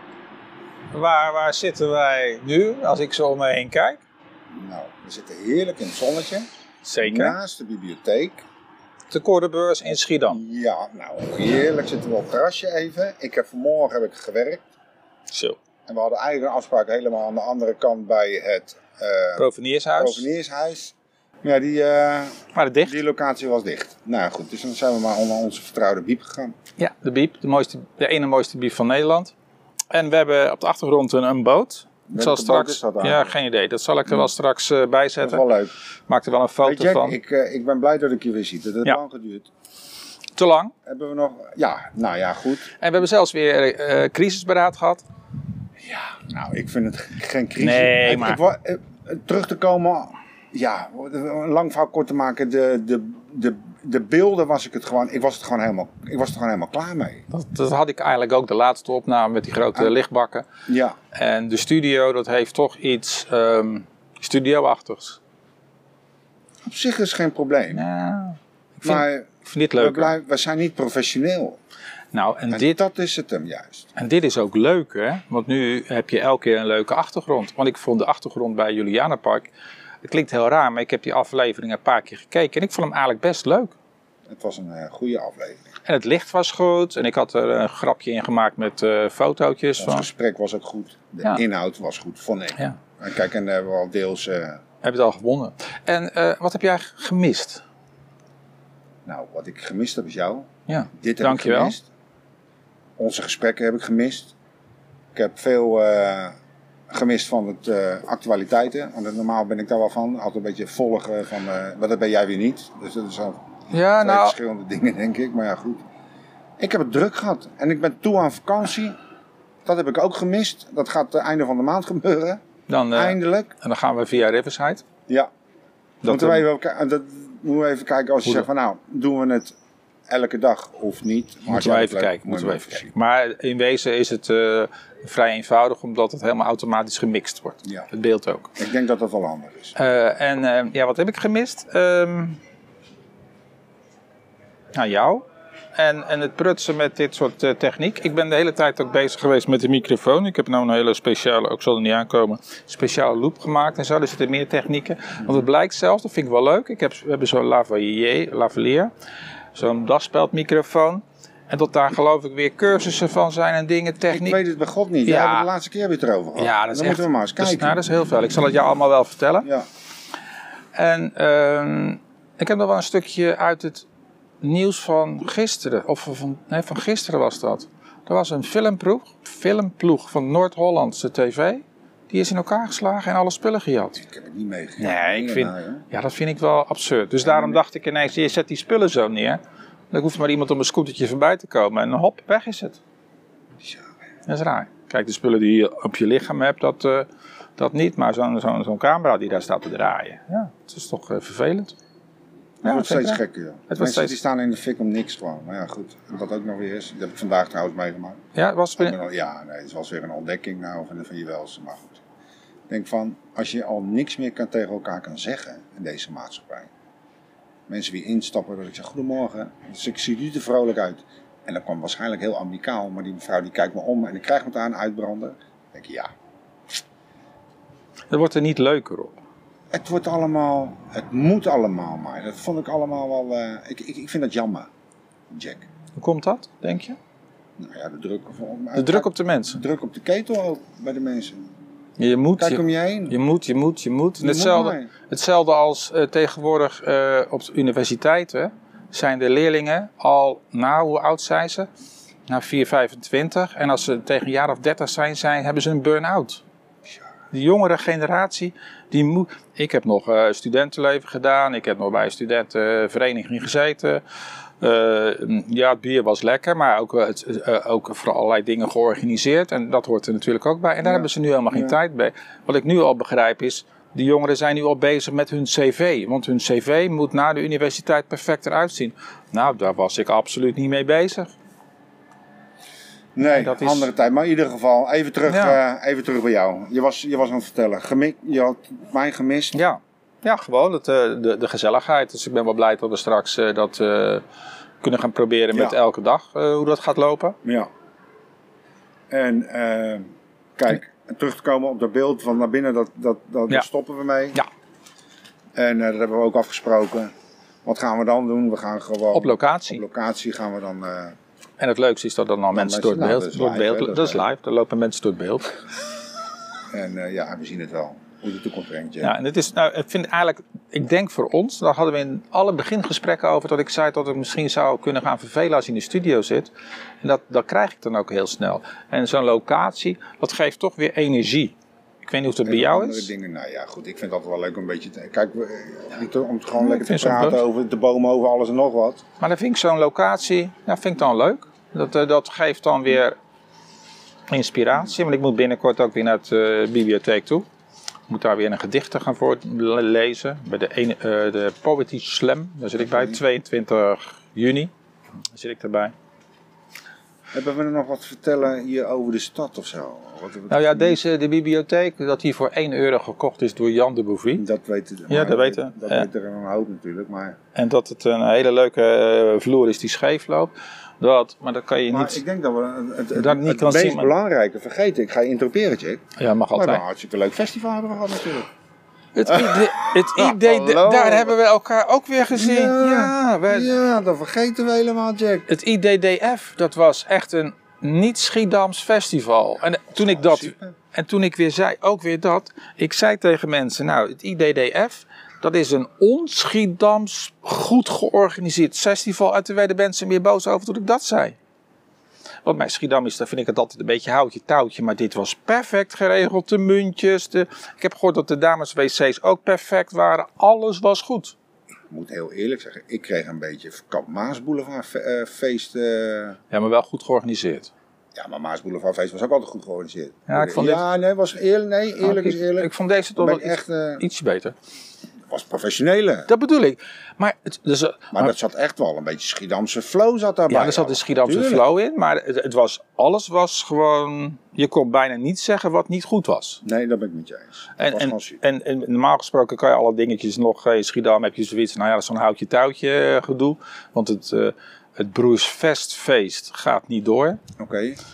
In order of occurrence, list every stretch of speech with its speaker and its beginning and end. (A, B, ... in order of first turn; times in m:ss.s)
0:00.9-0:04.0 A
0:04.5-0:06.5 B
0:06.8-0:07.4 A
0:07.0-0:08.4 B
0:09.1-0:10.4 A
0:09.9-0:14.7 B
0:15.3-0:15.6 A
0:15.9-0:26.5 B
0:19.4-0:20.2 A
0:22.5-0:23.0 A
0:26.8-0:29.3 A
0:29.9-0:35.4 A
0:32.1-0:33.3 B
0:35.2-0:35.7 B
0:36.1-0:37.2 A
0:36.6-0:39.5 B
0:40.4-0:40.7 A
0:40.8-0:42.7 B
0:42.8-0:45.0 A
0:45.8-0:57.2 B
0:47.6-0:48.4 A
0:57.3-1:00.4 A
1:00.7-1:01.0 B
1:01.1-1:05.2 A
1:06.7-1:07.8 B
1:07.7-1:10.1 A
1:08.8-1:11.6 B
1:12.1-1:12.8 A
1:12.5-1:13.9 B
1:14.0-1:19.5 A
1:20.0-1:23.8 A
1:24.3-1:25.7 B
1:25.9-1:30.1 A
1:29.8-1:34.6 B
1:34.8-1:37.6 A
1:39.0-1:41.9 B
1:40.7-1:41.8 A
1:43.0-1:44.3 B
1:45.1-1:46.3 B
1:46.9-1:53.4 B
1:53.7-1:54.4 A
1:54.0-1:55.8 B
1:56.6-1:58.9 B
1:59.6-2:02.4 B
2:02.7-2:04.8 A
2:02.9-2:03.5 B
2:06.0-2:06.4 A
2:06.1-2:09.6 B
2:10.1-2:12.9 B
2:11.5-2:18.6 A
2:18.6-2:19.8 B
2:19.8-2:22.4 A
2:24.8-2:25.2 A
2:25.8-2:38.9 A
2:39.5-2:44.4 A
2:44.1-2:47.8 B
2:45.1-2:45.5 A
2:46.4-2:49.5 A
2:50.8-2:53.9 A
2:54.4-3:04.0 A
3:04.0-3:05.8 B
3:04.8-3:09.4 A
3:07.2-3:07.6 B
3:09.9-3:12.8 A
3:13.6-3:13.9 B
3:14.3-3:21.8 A
3:22.6-3:24.2 A
3:22.6-3:28.2 B
3:28.3-3:29.0 A
3:28.8-3:32.0 B
3:32.7-3:36.7 B
3:37.7-3:46.1 B
3:48.1-3:49.2 A
3:49.7-3:54.7 B
3:55.3-3:55.7 B
3:56.0-3:57.0 A
3:57.6-4:01.4 B
3:58.8-3:59.6 A
4:02.0-4:11.7 A
4:02.4-4:03.2 B
4:04.2-4:04.9 B
4:12.3-4:16.4 A
4:17.3-4:24.0 A
4:24.6-4:41.3 A
4:30.8-4:31.8 B
4:43.1-4:49.6 B
4:43.2-4:43.9 A
4:45.3-4:45.6 A
4:49.5-4:54.2 A
4:54.8-4:57.4 A
4:55.5-4:55.8 B
4:57.4-4:57.7 B
4:59.1-5:00.1 B
5:00.6-5:04.4 B
5:05.6-5:07.1 B
5:07.6-5:11.1 B
5:09.1-5:09.8 A
5:11.6-5:15.5 A
5:12.5-5:14.2 B
5:16.7-5:19.1 B
5:19.0-5:26.5 A
5:27.0-5:31.5 A
5:32.0-5:33.1 A
5:32.4-5:39.0 B
5:36.6-5:37.4 A
5:39.2-5:43.2 A
5:44.3-5:47.4 A
5:48.1-5:54.7 A
5:52.8-5:53.2 B
5:55.3-5:55.9 A
5:57.3-6:01.0 B
6:00.5-6:04.4 A
6:04.4-6:07.4 B
6:05.1-6:06.1 A
6:07.6-6:12.2 A
6:11.9-6:16.0 B
6:13.1-6:14.1 A
6:16.2-6:16.8 A
6:16.5-6:18.5 B
6:19.1-6:23.8 A
6:19.2-6:21.4 B
6:22.3-6:25.5 B
6:25.5-6:41.4 A
6:30.0-6:30.8 B
6:42.4-6:51.4 A
6:51.9-6:56.4 B
6:56.5-6:57.7 A
6:58.1-7:04.0 B
7:00.3-7:00.8 A
7:02.0-7:04.6 A
7:05.3-7:06.3 B
7:06.3-7:08.3 A
7:08.1-7:11.6 B
7:10.5-7:16.6 A
7:16.6-7:18.4 B
7:17.8-7:27.4 A
7:27.6-7:28.0 B